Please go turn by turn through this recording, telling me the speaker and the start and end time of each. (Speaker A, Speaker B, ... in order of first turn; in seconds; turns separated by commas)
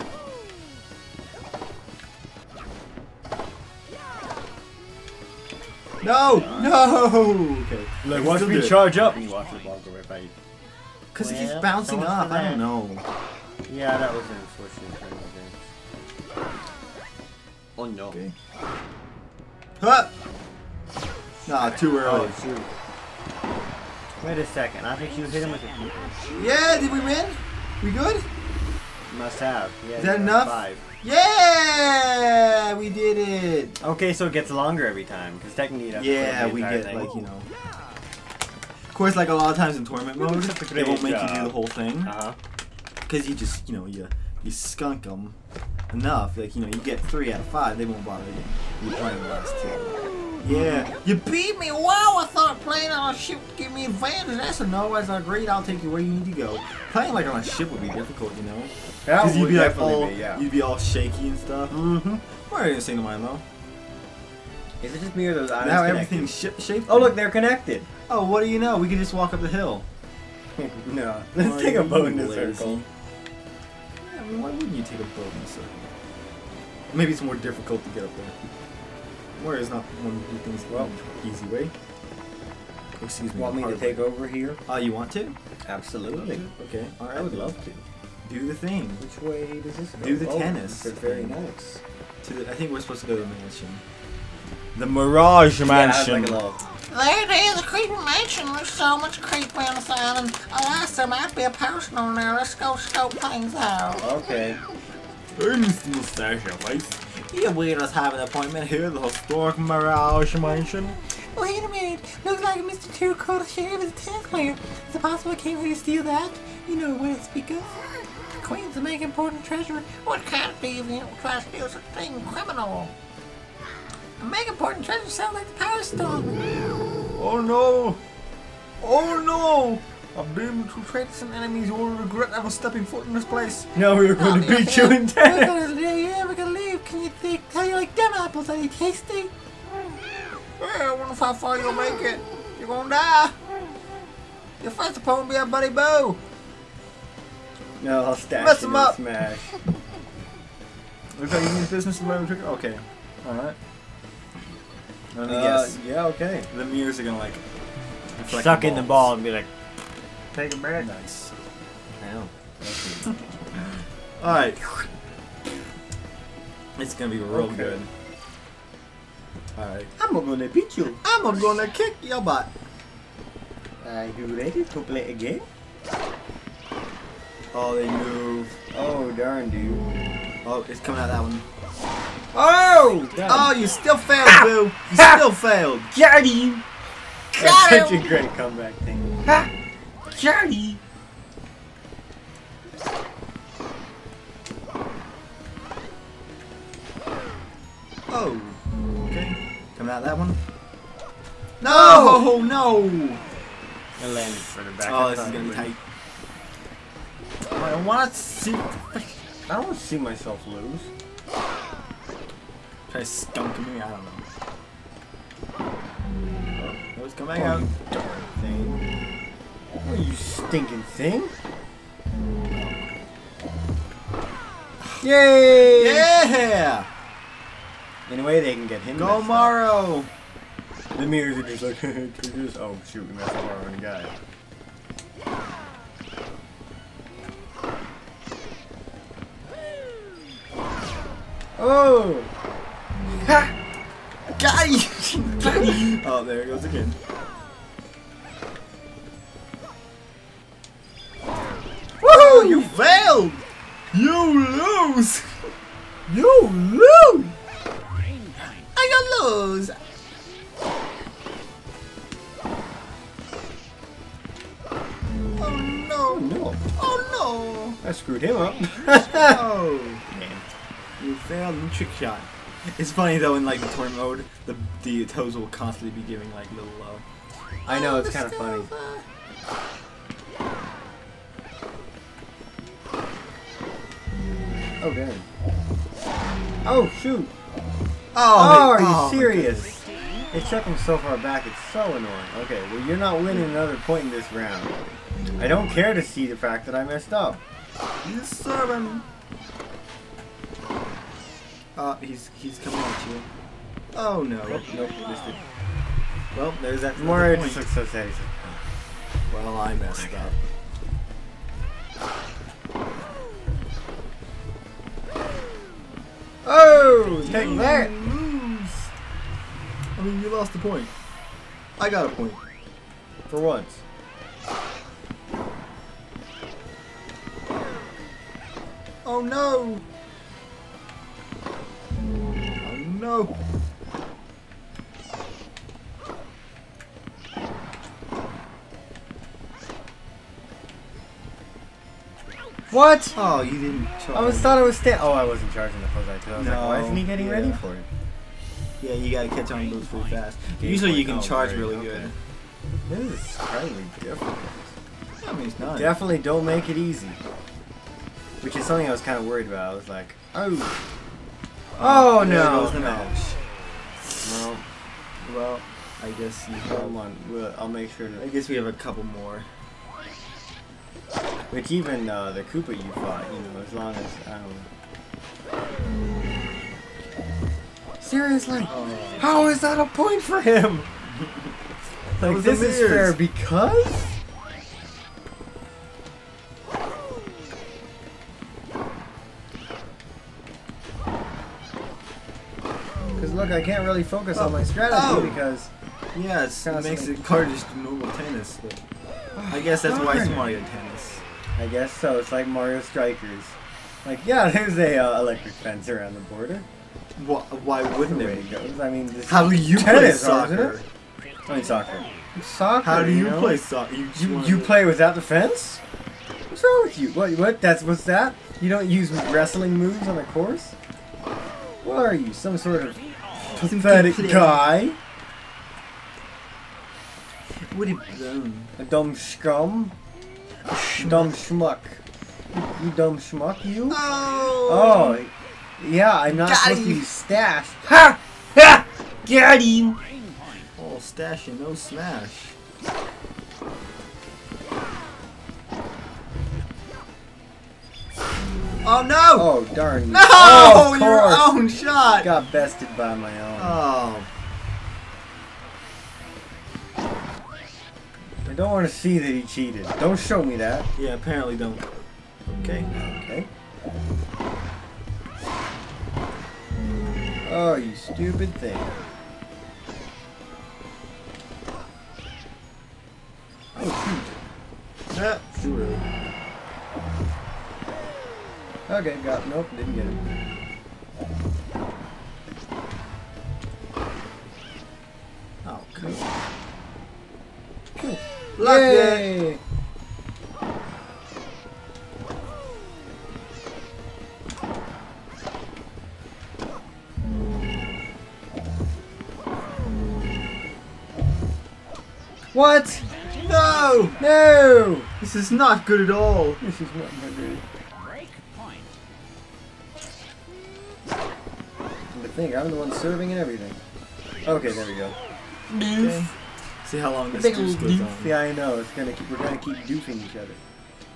Speaker A: 6.0-8.9, Speaker B: 6.4-6.8, Speaker B: 8.0-10.3, Speaker A: 11.1-13.1, Speaker B: 11.2-12.6, Speaker B: 13.7-15.6, Speaker B: 17.8-18.2, Speaker A: 19.8-20.1, Speaker A: 21.5-22.4, Speaker B: 21.5-22.7, Speaker B: 24.2-26.4, Speaker A: 26.3-28.2, Speaker B: 29.1-30.8, Speaker A: 30.0-33.8, Speaker B: 33.8-37.1, Speaker A: 36.0-37.5, Speaker A: 38.9-42.1, Speaker B: 40.2-42.4, Speaker A: 43.1-45.4, Speaker A: 45.9-51.7, Speaker B: 50.4-50.9, Speaker C: 51.6-54.4, Speaker A: 54.3-61.8, Speaker B: 59.0-60.5, Speaker B: 61.7-62.2, Speaker A: 62.5-63.4, Speaker B: 64.8-66.3, Speaker A: 65.6-67.2, Speaker B: 66.9-67.9, Speaker A: 68.1-69.9, Speaker B: 70.6-72.8, Speaker A: 71.4-72.9, Speaker A: 74.0-75.9, Speaker A: 76.9-78.3, Speaker A: 79.4-81.7, Speaker A: 83.0-84.1, Speaker B: 83.4-84.6, Speaker A: 84.7-85.4, Speaker B: 85.7-86.5, Speaker A: 86.2-87.5, Speaker B: 87.1-87.8, Speaker A: 88.2-89.0, Speaker B: 89.0-91.8, Speaker A: 90.0-91.4, Speaker A: 92.2-93.8, Speaker A: 94.8-96.4, Speaker B: 95.7-96.6, Speaker C: 96.9-103.7, Speaker A: 103.4-104.0, Speaker B: 104.0-104.6, Speaker A: 105.3-111.0, Speaker C: 111.4-112.5, Speaker C: 113.6-115.5, Speaker C: 118.7-119.2, Speaker C: 119.9-122.9, Speaker C: 124.2-126.4, Speaker A: 127.2-128.0, Speaker A: 128.8-133.7, Speaker B: 133.8-135.6, Speaker A: 134.2-137.2, Speaker C: 134.3-134.8, Speaker C: 135.4-139.3, Speaker A: 137.9-138.5, Speaker A: 140.6-143.3, Speaker A: 144.6-146.2, Speaker B: 147.8-149.5, Speaker A: 148.4-149.0, Speaker A: 151.1-153.6, Speaker A: 155.1-155.8, Speaker B: 155.2-156.5, Speaker A: 156.5-157.4, Speaker A: 158.1-159.1, Speaker B: 158.2-159.5, Speaker B: 160.3-161.1, Speaker A: 160.8-161.3, Speaker B: 162.0-163.2, Speaker A: 164.2-164.6, Speaker A: 166.8-167.9, Speaker B: 167.3-167.8, Speaker A: 169.6-169.9, Speaker B: 170.0-171.0, Speaker A: 171.0-172.5, Speaker B: 173.8-175.5, Speaker A: 177.5-178.6, Speaker B: 178.7-179.8, Speaker A: 180.4-181.4, Speaker B: 182.3-183.5, Speaker A: 183.2-185.9, Speaker B: 184.2-185.2, Speaker B: 185.9-186.6, Speaker A: 187.3-188.2, Speaker B: 187.3-189.5, Speaker B: 190.1-190.8, Speaker A: 198.1-200.4, Speaker A: 201.6-203.2, Speaker B: 201.6-202.3, Speaker B: 204.0-205.7, Speaker A: 204.8-205.8, Speaker A: 207.5-209.2, Speaker B: 209.5-210.9, Speaker A: 212.9-214.2, Speaker A: 216.6-218.8, Speaker B: 217.3-217.7, Speaker B: 219.8-221.3, Speaker A: 222.5-222.8, Speaker B: 225.0-226.1, Speaker A: 225.7-226.9, Speaker B: 228.1-229.6, Speaker A: 229.0-230.1, Speaker B: 230.9-234.1, Speaker B: 241.6-242.3, Speaker B: 243.2-243.5, Speaker A: 244.4-247.0, Speaker B: 245.4-246.0, Speaker A: 252.0-255.3, Speaker B: 252.0-253.1, Speaker A: 256.1-257.3, Speaker A: 258.8-259.8, Speaker A: 265.4-267.8, Speaker B: 266.1-266.6, Speaker B: 267.8-269.4, Speaker A: 268.9-270.0, Speaker B: 270.1-270.5, Speaker A: 271.0-277.0, Speaker B: 277.7-278.7, Speaker A: 277.7-279.0, Speaker B: 284.8-285.2, Speaker B: 286.6-287.3, Speaker A: 288.1-289.8, Speaker B: 288.3-294.8, Speaker B: 295.4-297.4, Speaker A: 298.0-299.1, Speaker A: 301.8-303.3, Speaker A: 303.9-304.7, Speaker B: 304.5-305.4, Speaker A: 306.3-307.7, Speaker B: 306.9-308.6, Speaker A: 309.3-310.4, Speaker B: 316.4-317.9, Speaker A: 317.1-318.9, Speaker A: 319.9-320.9, Speaker A: 321.8-322.4, Speaker B: 323.3-323.8, Speaker A: 329.1-329.8, Speaker A: 332.6-333.3, Speaker B: 342.7-343.2, Speaker A: 343.1-344.6, Speaker B: 344.1-347.9, Speaker A: 346.3-347.6, Speaker A: 348.8-352.1, Speaker B: 350.6-352.1, Speaker B: 352.9-354.7, Speaker A: 355.2-356.0, Speaker B: 355.8-357.2, Speaker B: 358.4-360.7, Speaker B: 361.8-363.1, Speaker A: 361.8-363.4, Speaker B: 364.2-364.6, Speaker A: 365.2-367.0, Speaker B: 366.6-368.3, Speaker A: 368.2-369.5, Speaker B: 371.5-374.7, Speaker B: 378.0-381.0, Speaker A: 378.6-379.2, Speaker B: 382.1-384.2, Speaker A: 382.2-383.2, Speaker B: 393.2-395.7, Speaker A: 394.4-395.4, Speaker A: 396.1-398.8, Speaker B: 396.6-397.5, Speaker B: 399.4-400.6, Speaker A: 399.5-401.2, Speaker B: 401.6-406.6, Speaker A: 407.1-408.5, Speaker B: 408.0-410.8, Speaker A: 409.2-410.9, Speaker B: 411.5-413.6, Speaker A: 412.8-414.8, Speaker B: 414.1-415.8, Speaker B: 416.5-420.8, Speaker B: 421.8-425.0, Speaker A: 423.4-424.8, Speaker A: 427.7-428.7, Speaker B: 428.8-429.9, Speaker B: 430.7-432.0, Speaker A: 430.9-431.4, Speaker B: 432.5-434.0, Speaker A: 433.9-435.2, Speaker B: 434.6-440.0, Speaker A: 436.3-437.1, Speaker A: 440.8-442.6, Speaker A: 448.8-452.3, Speaker B: 449.4-453.8, Speaker A: 453.6-454.3, Speaker B: 458.4-460.9, Speaker A: 461.0-461.9, Speaker A: 462.5-462.9, Speaker B: 462.9-463.5, Speaker B: 467.4-468.9, Speaker A: 473.8-474.3, Speaker A: 475.1-476.1, Speaker B: 478.9-480.2, Speaker A: 485.6-486.3, Speaker B: 487.9-489.6, Speaker A: 488.6-489.3, Speaker B: 502.5-503.1, Speaker A: 503.4-504.2, Speaker B: 504.2-505.1, Speaker A: 505.2-506.6, Speaker B: 506.6-507.6, Speaker B: 512.1-513.8, Speaker B: 514.4-515.1, Speaker A: 514.5-514.8, Speaker B: 515.7-516.3, Speaker A: 515.8-518.4, Speaker B: 517.3-520.6